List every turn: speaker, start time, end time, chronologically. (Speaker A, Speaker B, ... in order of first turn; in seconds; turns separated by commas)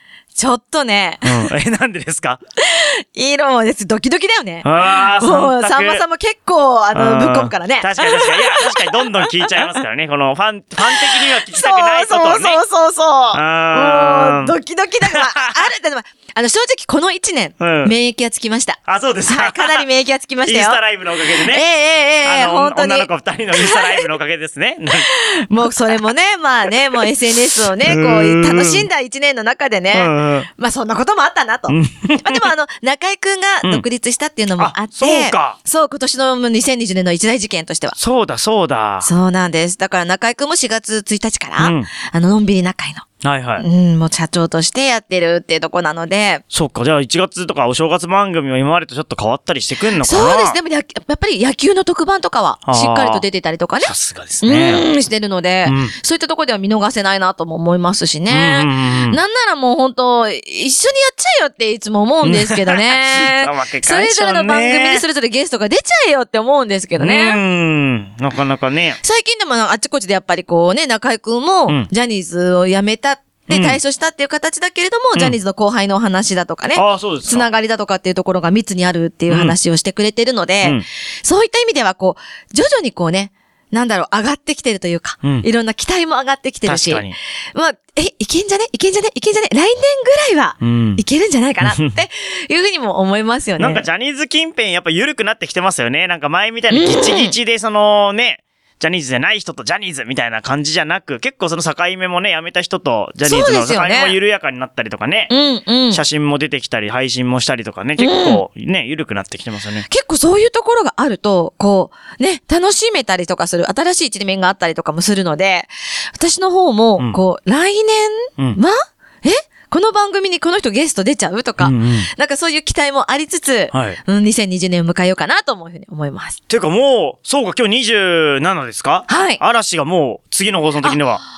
Speaker A: 0.3-1.5, Speaker B: 1.2-2.4, Speaker A: 2.6-9.8, Speaker B: 4.6-6.0, Speaker B: 6.9-12.6, Speaker A: 10.8-24.1, Speaker B: 13.3-15.7, Speaker B: 17.6-17.9, Speaker B: 18.9-19.9, Speaker B: 20.4-21.6, Speaker B: 22.2-25.1, Speaker A: 25.0-38.0, Speaker B: 27.8-28.9, Speaker B: 29.9-30.5, Speaker B: 31.7-32.5, Speaker B: 34.6-35.6, Speaker B: 38.0-39.1, Speaker A: 39.0-43.0, Speaker B: 41.6-41.9, Speaker B: 43.2-43.7, Speaker A: 43.6-46.4, Speaker B: 46.5-50.6, Speaker A: 50.0-67.4, Speaker B: 52.7-53.2, Speaker B: 53.8-54.9, Speaker B: 55.6-55.9, Speaker B: 58.3-59.2, Speaker B: 62.2-65.0, Speaker B: 67.0-69.0, Speaker A: 69.0-93.8, Speaker B: 73.5-73.8, Speaker B: 76.8-77.5, Speaker B: 79.3-79.6, Speaker B: 86.7-87.2, Speaker B: 90.6-91.0, Speaker B: 91.6-92.0, Speaker B: 93.6-105.3, Speaker A: 96.7-97.3, Speaker A: 103.2-104.2, Speaker A: 105.3-106.0, Speaker B: 105.9-109.9, Speaker A: 108.0-108.4, Speaker A: 109.9-126.4, Speaker B: 121.6-122.1, Speaker B: 123.7-124.0, Speaker B: 126.5-131.2, Speaker A: 129.1-129.4